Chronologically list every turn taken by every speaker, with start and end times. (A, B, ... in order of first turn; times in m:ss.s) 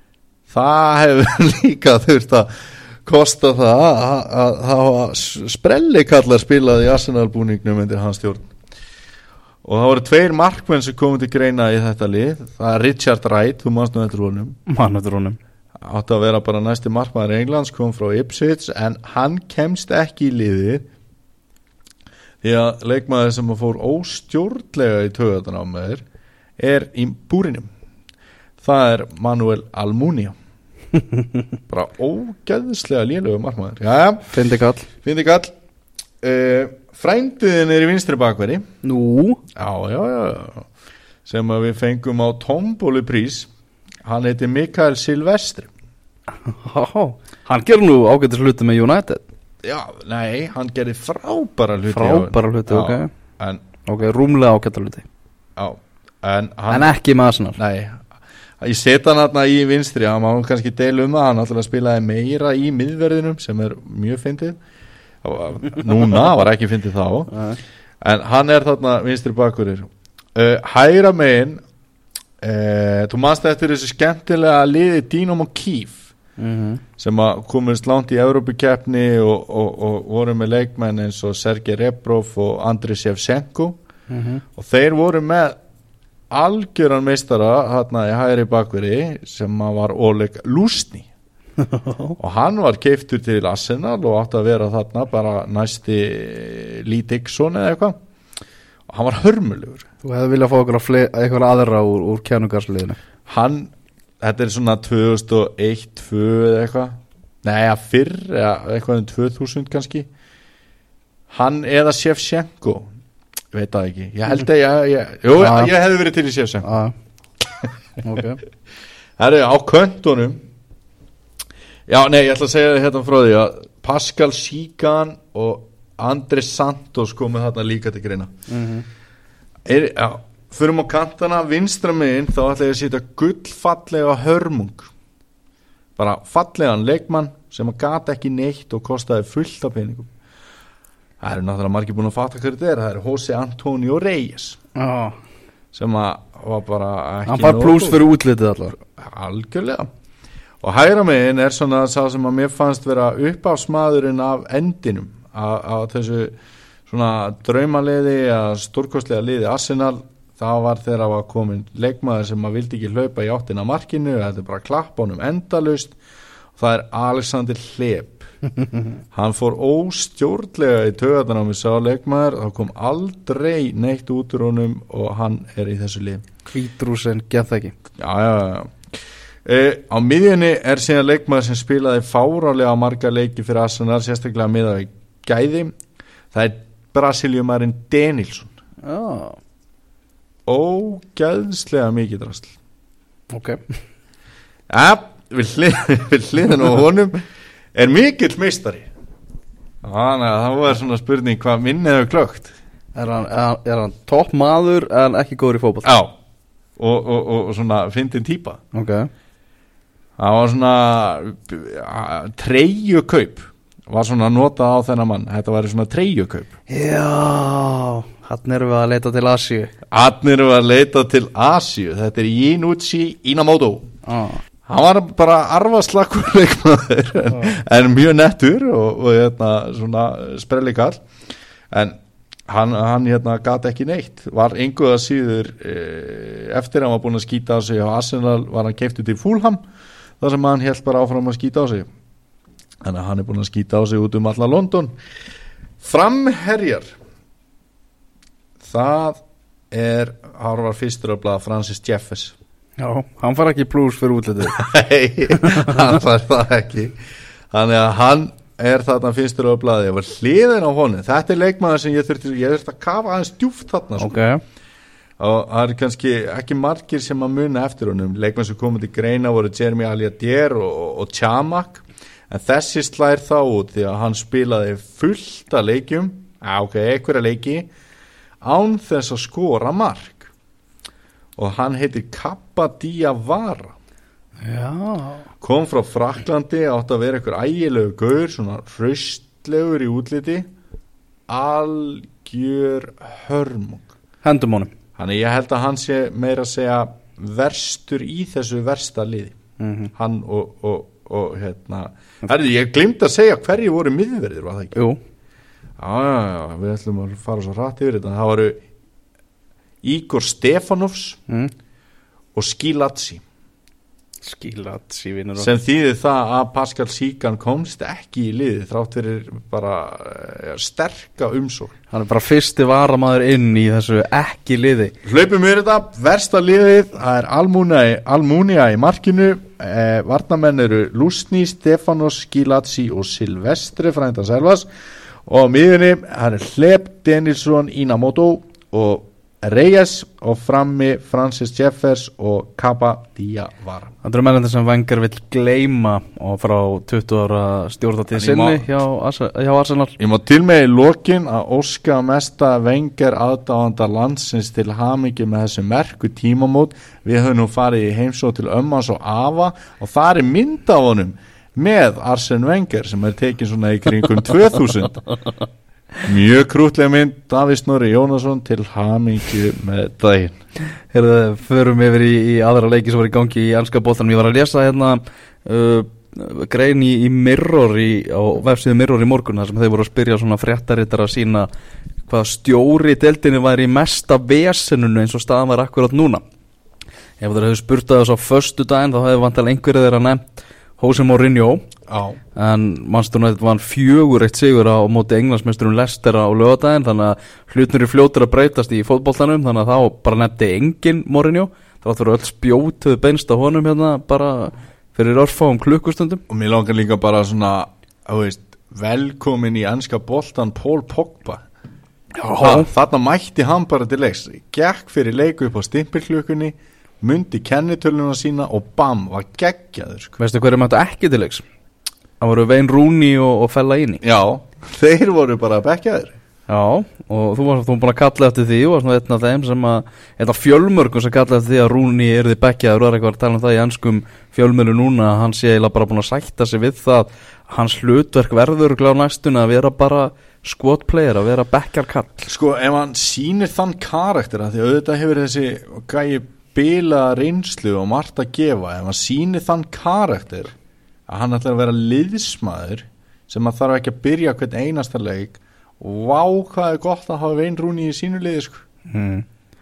0:00.5-0:02.5 A
0:03.0-0:08.5 A
0:09.6-0:14.6 A
0:14.7-0:15.4 B
0:15.8-0:20.9 A
0:22.4-0:26.0 A
0:26.6-0:27.7 A
0:28.6-0:30.4 A
0:31.7-0:34.3 A
0:34.3-0:34.9 B
0:35.0-0:35.5 A
0:36.2-0:38.6 A
0:38.8-0:39.4 B
0:39.6-0:40.7 A
0:41.2-0:43.5 A
0:44.0-0:45.7 A
0:46.4-0:49.2 B
0:49.6-0:53.6 A
0:51.9-0:53.1 B
0:53.9-0:55.1 B
0:55.6-0:56.9 A
0:56.7-0:57.6 B
0:57.6-0:58.0 A
0:58.6-1:04.6 A
1:05.2-1:07.3 A
1:07.3-1:07.6 B
1:08.0-1:11.6 A
1:12.4-1:16.0 A
1:16.4-1:16.8 B
1:17.0-1:23.8 A
1:24.1-1:24.4 B
1:24.6-1:25.6 A
1:26.3-1:31.1 A
1:31.6-1:32.2 B
1:32.2-1:38.0 A
1:38.9-1:39.9 A
1:40.0-1:43.0 B
1:43.3-1:50.1 A
1:51.3-1:52.9 A
1:53.5-1:56.7 A
1:55.4-1:55.7 B
1:56.6-1:56.9 B
1:58.0-1:58.4 B
1:59.2-2:00.4 A
2:01.9-2:08.3 A
2:08.5-2:08.8 B
2:09.7-2:14.9 A
2:16.0-2:20.1 A
2:21.2-2:24.6 A
2:24.8-2:25.2 B
2:25.7-2:28.0 A
2:27.3-2:28.8 B
2:28.9-2:29.9 A
2:30.6-2:36.4 A
2:36.9-2:46.0 A
2:46.6-2:48.3 A
2:49.1-2:56.2 A
2:56.5-2:57.7 B
2:58.0-2:58.8 A
2:59.4-3:05.8 A
3:06.3-3:08.6 A
3:08.8-3:09.4 B
3:10.5-3:12.5 A
3:13.3-3:13.6 B
3:14.7-3:18.9 A
3:19.8-3:22.5 A
3:23.0-3:25.9 B
3:25.8-3:26.1 A
3:26.8-3:28.6 A
3:28.7-3:29.1 B
3:30.2-3:36.5 A
3:36.7-3:39.7 B
3:39.9-3:43.9 A
3:44.0-3:44.4 B
3:44.7-3:51.0 A
3:51.7-3:52.0 A
3:52.5-3:59.6 A
4:00.2-4:01.9 A
4:02.8-4:05.0 A
4:05.8-4:07.0 A
4:08.6-4:12.4 A
4:12.8-4:14.6 B
4:14.5-4:17.0 A
4:17.5-4:24.2 A
4:24.0-4:24.4 B
4:25.2-4:37.7 A
4:38.4-4:40.3 A
4:41.4-4:43.7 A
4:44.4-4:45.3 B
4:45.4-4:50.5 A
4:51.3-4:53.9 A
4:54.2-4:54.7 B
4:55.0-4:59.4 A
4:59.6-4:59.9 B
5:00.0-5:04.8 A
5:05.8-5:08.6 A
5:09.8-5:11.2 A
5:12.4-5:13.2 A
5:14.2-5:15.5 B
5:15.4-5:21.8 A
5:21.9-5:24.9 B
5:25.0-5:34.7 A
5:35.2-5:43.9 A
5:44.0-5:50.0 B
5:48.2-5:48.7 A
5:50.0-6:05.0 A
6:06.0-6:10.4 A
6:10.9-6:21.5 B
6:22.1-6:26.2 B
6:27.2-6:31.6 B
6:31.9-6:32.2 A
6:32.4-6:46.2 B
6:46.3-6:51.4 A
6:52.2-6:52.7 B
6:52.4-7:00.2 A
7:00.2-7:01.4 B
7:02.2-7:04.0 B
7:04.0-7:06.2 A
7:06.5-7:22.3 B
7:22.3-7:30.6 A
7:31.1-7:38.6 A
7:38.9-7:39.2 B